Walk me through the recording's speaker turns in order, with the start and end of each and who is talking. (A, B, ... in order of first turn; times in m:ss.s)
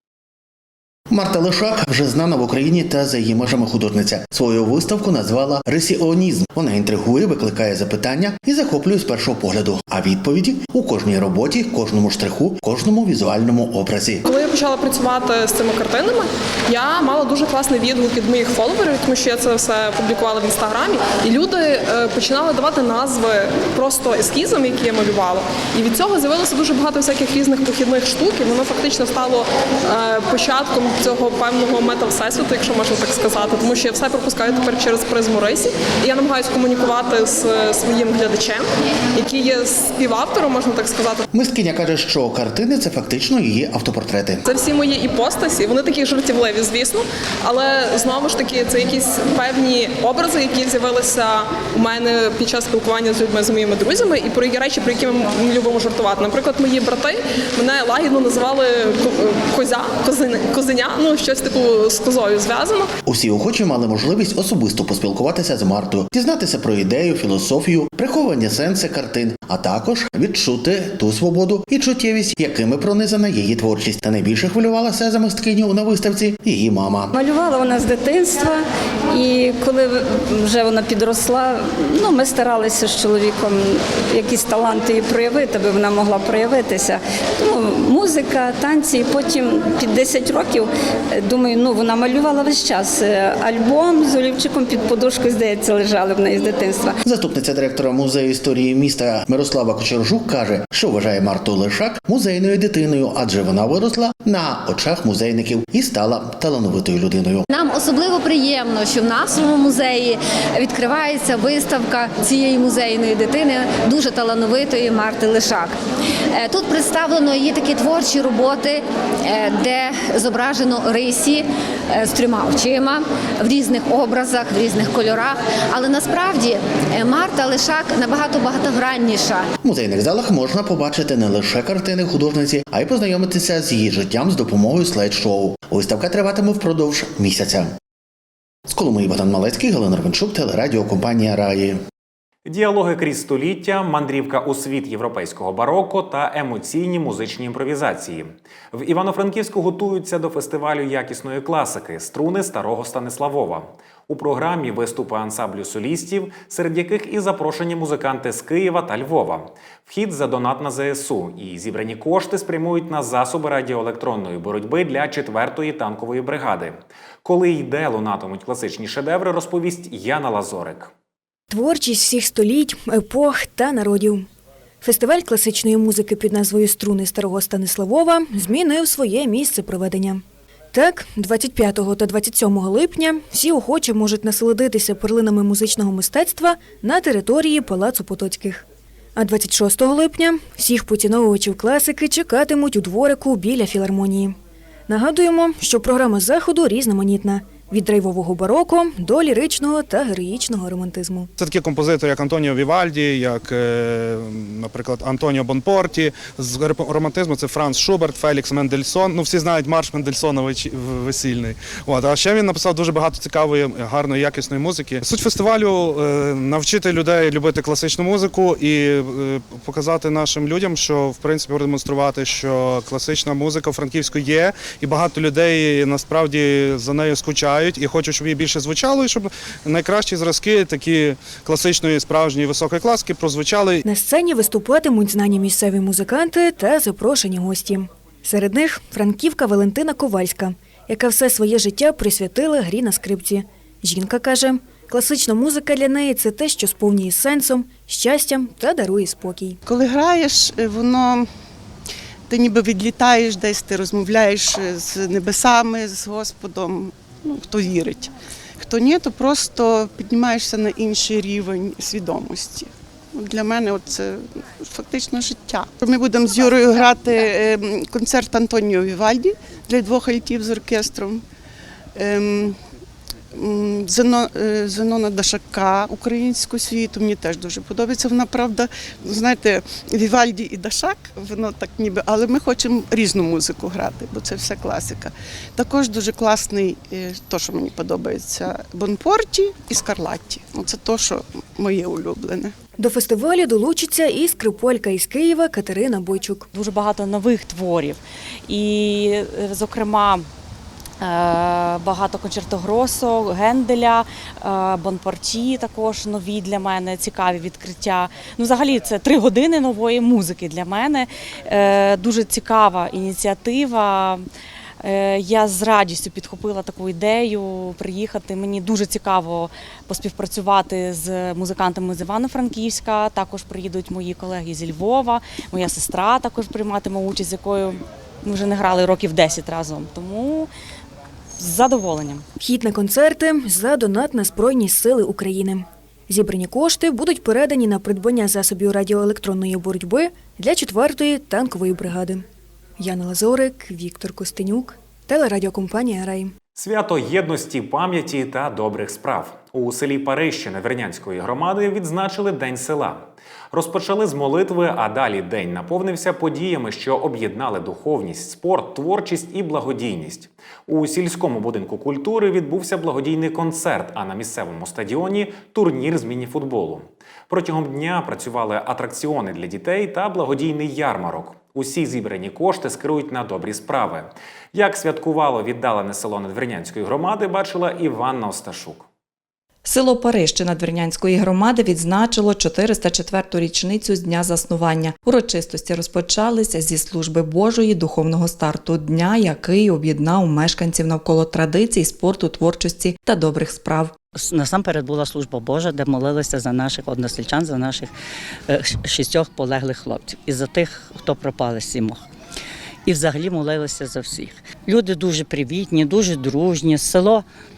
0:01.1-0:14.2 A
0:14.2-0:41.2 B
0:41.3-0:44.4 A
0:44.4-1:02.9 B
1:03.0-1:17.1 A
1:17.1-1:37.0 C
1:37.0-1:47.4 A
1:47.5-1:55.8 D
1:56.3-2:09.5 D
2:09.6-2:17.8 A
2:18.7-2:21.8 A
2:22.4-2:50.9 E
2:51.5-2:54.2 F
2:54.8-3:00.2 F
3:00.7-3:08.6 F
3:09.2-3:14.4 F
3:14.9-3:21.3 F
3:21.4-3:53.8 G
3:53.8-4:09.6 F
4:09.6-4:11.3 H
4:12.3-4:31.2 H
4:31.9-4:32.6 H
4:33.3-4:52.5 H
4:52.8-4:56.5 F
4:56.5-5:00.2 I
5:01.0-5:14.2 I
5:14.8-5:30.5 I
5:31.4-5:32.2 I
5:32.4-5:42.2 F
5:42.8-5:46.3 F
5:46.6-6:18.8 E
6:19.6-6:34.0 J
6:34.1-6:37.9 K
6:38.5-6:42.0 K
6:42.8-6:47.2 K